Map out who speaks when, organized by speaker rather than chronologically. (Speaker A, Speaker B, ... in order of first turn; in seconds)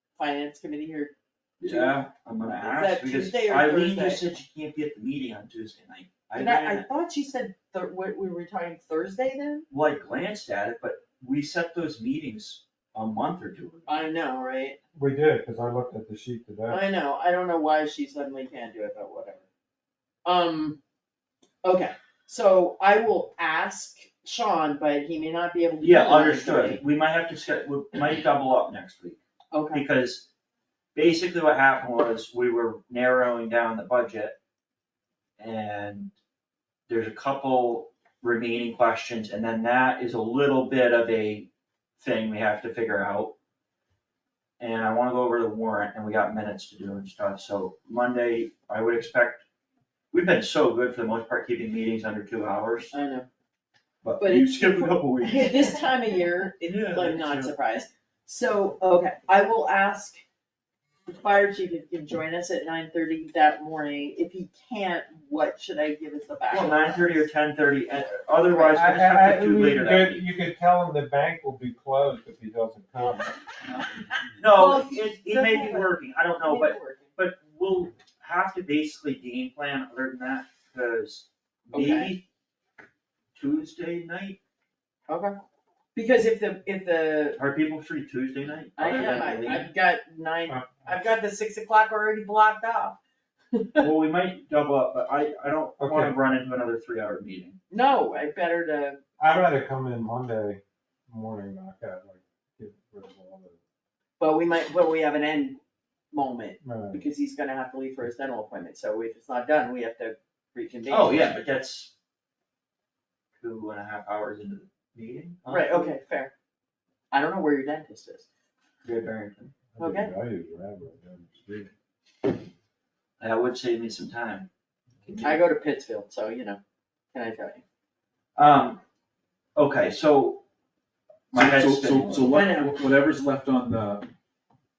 Speaker A: 0.1-2.0, 2.6-4.2, 6.3-9.7, 13.9-14.8, 16.7-19.5, 20.2-20.8, 21.6-26.8, 29.5-29.8, 52.9-53.3, 54.2-60.2, 61.1-67.3, 68.4-68.8, 74.4-77.1, 81.7-82.1, 85.1-85.3, 85.9-87.4, 88.8-93.0, 93.5-93.8, 97.7-99.4, 104.2-105.6, 106.1-111.4, 115.5-116.3, 117.1-118.3, 119.8-120.1, 125.2-126.6, 127.1-127.6, 132.2-132.7
Speaker B: 1.6-6.9, 9.7-14.1, 25.8-29.2, 29.7-30.3, 30.9-34.4, 35.4-36.1, 36.9-43.3, 44.6-49.4, 50.1-53.0, 54.0-55.8, 56.6-57.5, 66.5-70.2, 74.4-82.2, 83.3-84.4, 87.3-89.7, 93.8-97.6, 110.9-111.9, 113.4-116.0, 118.8-119.5, 123.2-124.5, 128.3-128.8, 129.6-130.4, 131.3-132.3
Speaker C: 14.9-16.8, 68.7-73.4, 95.8-96.2, 99.2-103.6, 106.6-107.0, 119.7-121.7
Speaker D: 131.3-134.1